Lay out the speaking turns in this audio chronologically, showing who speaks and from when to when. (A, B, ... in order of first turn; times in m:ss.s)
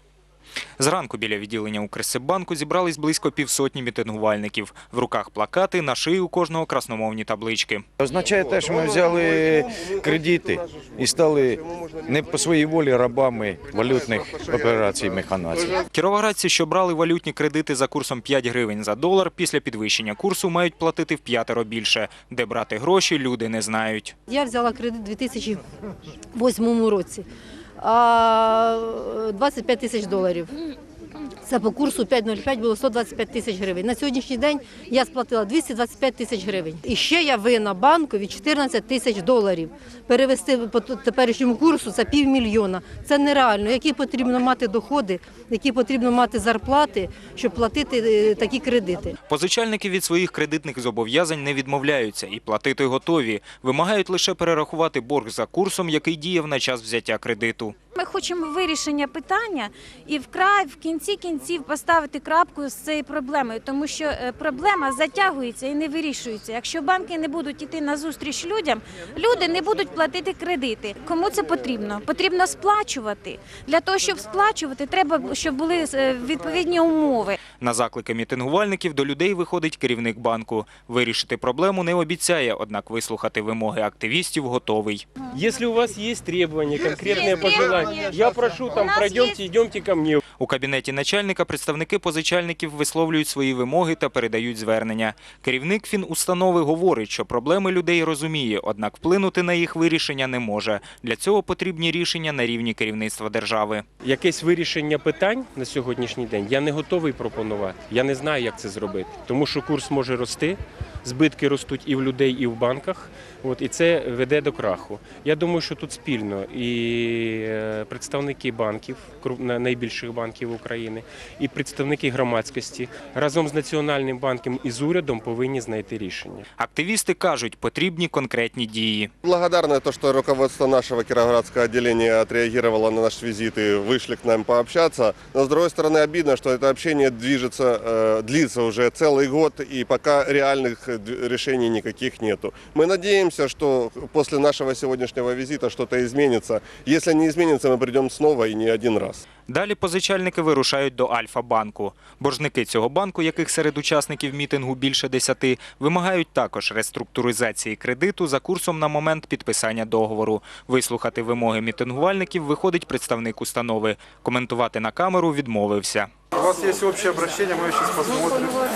0:00.8-0:07.8 A
0:08.0-0:15.8 B
0:08.4-0:12.3 C
0:13.7-0:15.9 C
0:15.9-0:24.1 A
0:24.3-0:25.6 D
0:26.3-0:27.2 D
0:27.8-0:30.5 D
0:31.4-0:49.2 D
0:49.3-0:57.8 A
0:58.0-1:17.4 E
1:17.6-1:25.1 A
1:25.3-1:30.2 F
1:27.1-1:28.2 E
1:28.7-1:29.4 E
1:30.4-1:43.8 A
1:44.0-2:06.4 F
2:06.6-2:09.1 A
2:09.3-2:29.2 C
2:29.5-2:46.1 A
2:46.4-2:48.5 G